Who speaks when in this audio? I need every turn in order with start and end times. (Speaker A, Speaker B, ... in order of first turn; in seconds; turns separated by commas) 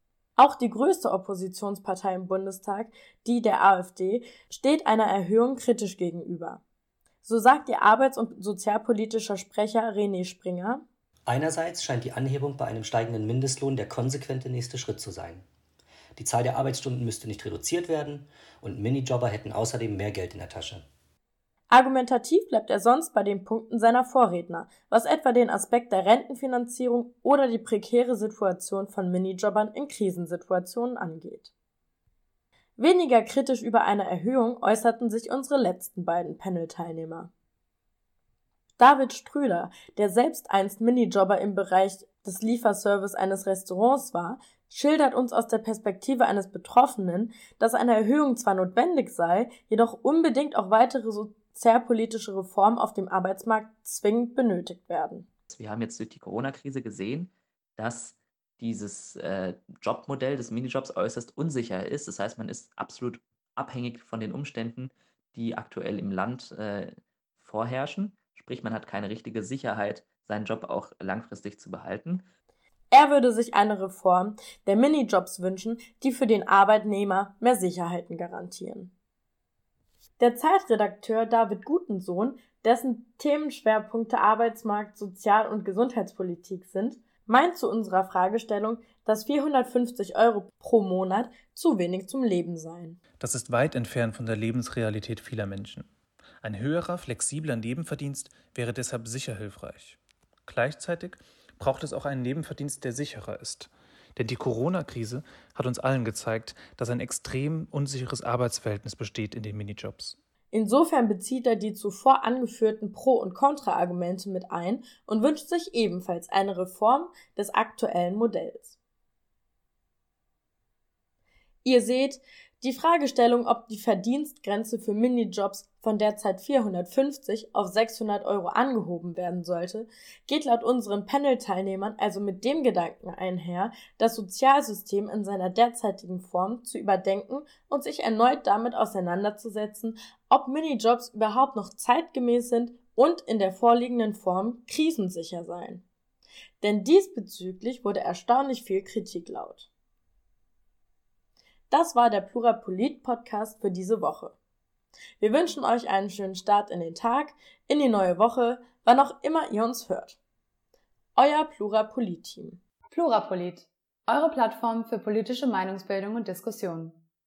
Speaker A: 0.4-6.6, Speaker A: 7.2-10.8, Speaker B: 11.3-15.5, Speaker B: 16.2-20.9, Speaker A: 21.7-31.5, Speaker A: 32.8-37.3, Speaker A: 38.8-55.3, Speaker C: 55.5-72.2, Speaker A: 72.9-78.9, Speaker A: 80.2-93.0, Speaker D: 93.2-95.9, Speaker D: 96.4-110.2, Speaker A: 110.5-118.8, Speaker A: 121.7-145.8, Speaker A: 146.6-149.7, Speaker A: 151.7-154.4, Speaker A: 155.2-160.2, Speaker A: 161.2-162.6, Speaker E: 162.9-167.0